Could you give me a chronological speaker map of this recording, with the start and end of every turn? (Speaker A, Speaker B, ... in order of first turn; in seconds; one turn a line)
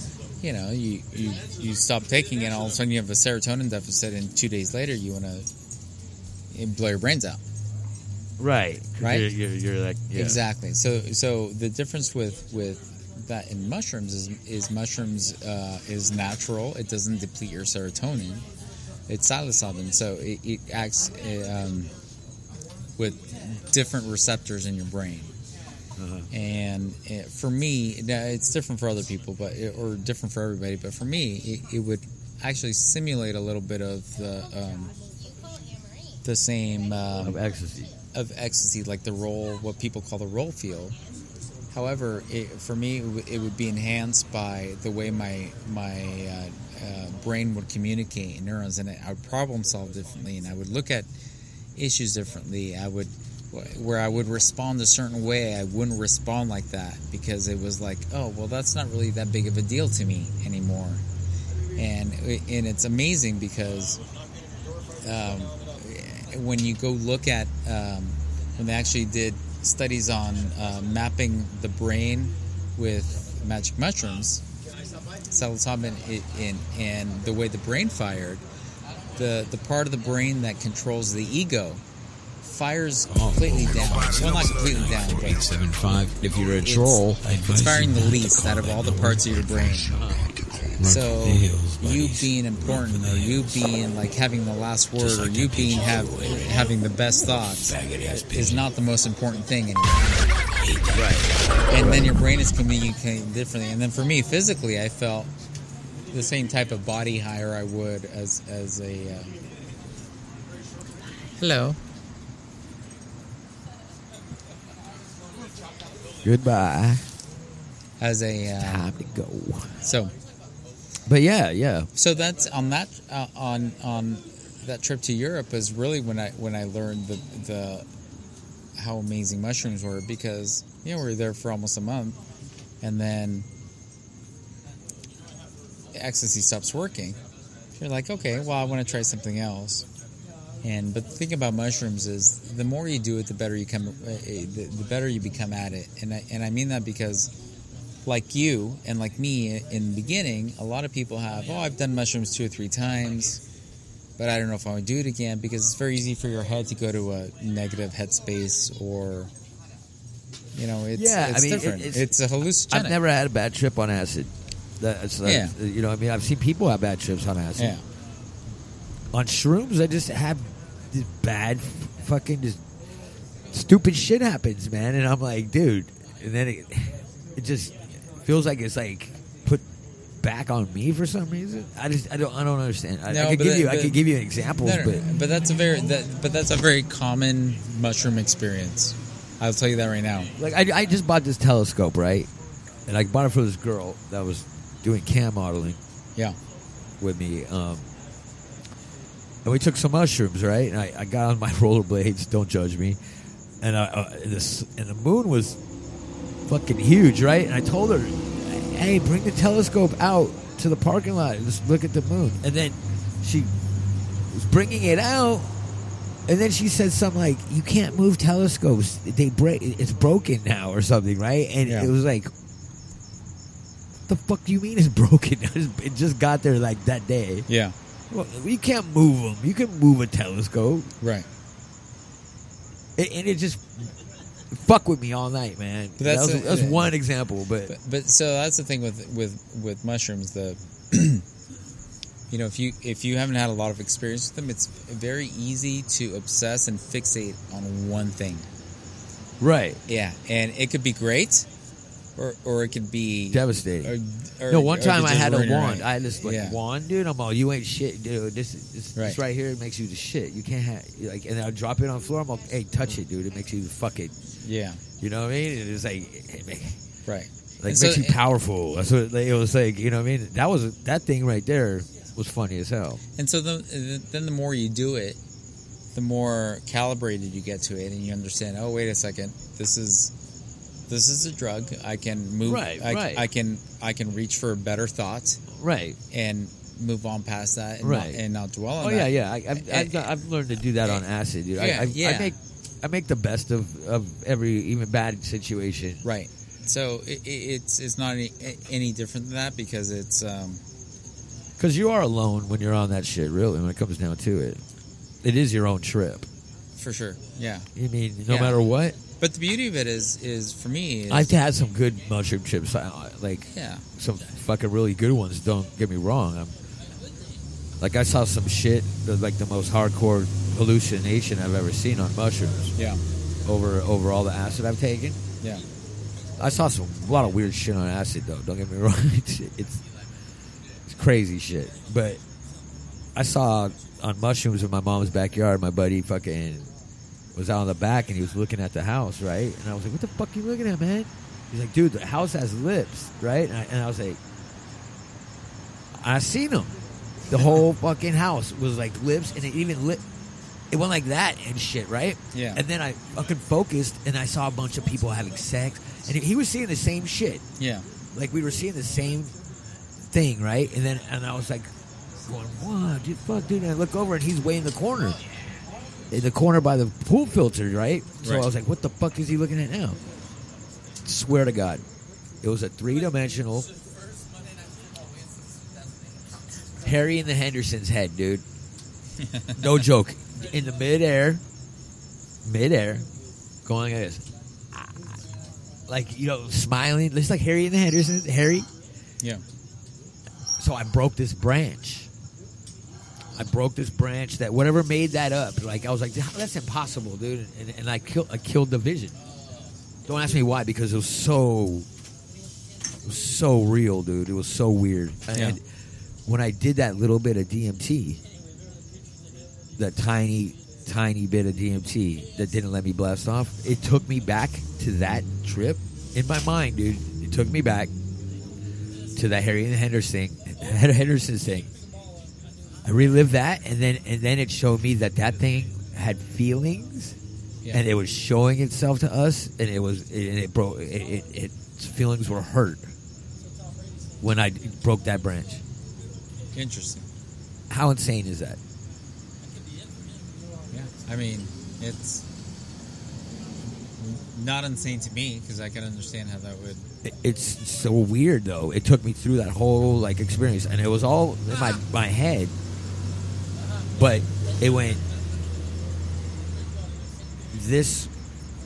Speaker A: 0.4-5.5
Speaker A: 6.5-7.4
Speaker B: 8.4-10.4
Speaker A: 9.0-9.3
Speaker A: 10.1-18.4
Speaker A: 19.1-21.9
Speaker A: 23.0-25.3
Speaker B: 26.0-26.3
Speaker A: 26.3-34.9
Speaker A: 36.2-37.4
Speaker B: 37.2-37.9
Speaker A: 38.1-40.9
Speaker A: 41.7-51.1
Speaker A: 51.7-61.0
Speaker A: 61.8-64.0
Speaker A: 65.0-74.4
Speaker A: 75.3-78.4
Speaker A: 79.2-81.8
Speaker A: 82.4-85.4
Speaker C: 83.1-93.5
Speaker A: 86.6-90.0
Speaker B: 89.9-90.2
Speaker A: 90.8-100.3
Speaker C: 95.0-96.7
Speaker C: 97.2-98.7
Speaker C: 100.6-101.2
Speaker B: 100.9-102.0
Speaker A: 101.7-105.3
Speaker A: 106.1-109.4
Speaker A: 111.4-111.8
Speaker B: 116.2-117.1
Speaker A: 118.0-118.9
Speaker B: 118.5-119.8
Speaker A: 119.8-120.1
Speaker B: 121.1-121.9
Speaker A: 122.0-127.9
Speaker A: 128.7-132.2
Speaker A: 132.8-133.5
Speaker A: 135.9-137.2
Speaker A: 137.8-139.8
Speaker A: 140.6-147.3
Speaker A: 148.0-153.4
Speaker A: 154.2-159.3
Speaker A: 160.5-163.0
Speaker B: 160.9-162.1
Speaker B: 162.7-167.8
Speaker A: 165.2-165.6
Speaker A: 167.6-167.8
Speaker B: 169.1-172.6
Speaker B: 173.5-179.6
Speaker B: 180.2-185.0
Speaker A: 183.1-184.0
Speaker A: 184.6-190.3
Speaker B: 190.3-192.3
Speaker B: 192.9-195.8
Speaker B: 197.0-197.9
Speaker B: 199.4-203.0
Speaker B: 203.6-205.6
Speaker B: 206.5-213.5
Speaker B: 214.3-215.5
Speaker B: 216.3-222.3
Speaker A: 221.6-221.9
Speaker B: 224.1-227.5
Speaker A: 227.5-227.7
Speaker B: 228.1-230.9
Speaker A: 231.0-231.3
Speaker B: 233.0-233.9
Speaker B: 234.5-237.7
Speaker A: 236.0-236.9
Speaker A: 237.7-241.2
Speaker A: 242.3-248.5
Speaker B: 249.4-249.8
Speaker A: 249.9-251.5
Speaker A: 252.2-256.6
Speaker B: 253.3-253.9
Speaker B: 254.5-264.1
Speaker A: 258.9-259.2
Speaker A: 264.4-264.8
Speaker B: 265.0-266.8
Speaker A: 267.1-268.2
Speaker B: 267.6-273.0
Speaker A: 273.2-275.2
Speaker A: 275.9-280.1
Speaker A: 280.9-285.4
Speaker B: 282.4-283.3
Speaker B: 285.5-286.0
Speaker A: 286.1-292.3
Speaker B: 287.8-288.2
Speaker B: 288.8-296.0
Speaker A: 296.0-300.6
Speaker B: 301.6-304.6
Speaker B: 305.2-306.3
Speaker A: 306.8-307.7
Speaker B: 307.7-309.0
Speaker A: 308.3-308.6
Speaker A: 309.2-311.3
Speaker B: 311.1-316.5
Speaker A: 313.5-313.8
Speaker B: 317.8-322.7
Speaker A: 322.8-323.0
Speaker B: 323.4-325.2
Speaker B: 326.4-329.8
Speaker B: 330.9-332.2
Speaker B: 333.1-336.7
Speaker B: 337.3-344.2
Speaker B: 345.9-350.0
Speaker B: 350.7-357.4
Speaker A: 352.3-352.6
Speaker A: 357.6-357.9
Speaker B: 358.1-359.3
Speaker B: 360.1-361.7
Speaker B: 362.3-365.2
Speaker B: 366.1-370.0
Speaker A: 368.2-368.5
Speaker B: 371.0-371.8
Speaker B: 372.4-373.7
Speaker B: 376.8-378.4
Speaker B: 379.6-381.4
Speaker B: 382.4-383.1
Speaker B: 383.6-385.0
Speaker B: 385.9-388.7
Speaker B: 390.6-392.1
Speaker B: 393.3-399.1
Speaker B: 400.1-401.9
Speaker B: 403.0-405.6
Speaker A: 405.3-405.6
Speaker B: 406.2-408.2
Speaker B: 409.8-417.9
Speaker B: 419.1-421.7
Speaker B: 422.8-427.1
Speaker B: 427.7-432.9
Speaker B: 434.2-435.6
Speaker A: 436.5-437.1
Speaker B: 437.7-438.6
Speaker A: 440.7-442.2
Speaker A: 444.0-446.9
Speaker B: 447.0-452.5
Speaker B: 453.9-455.0
Speaker B: 457.5-458.1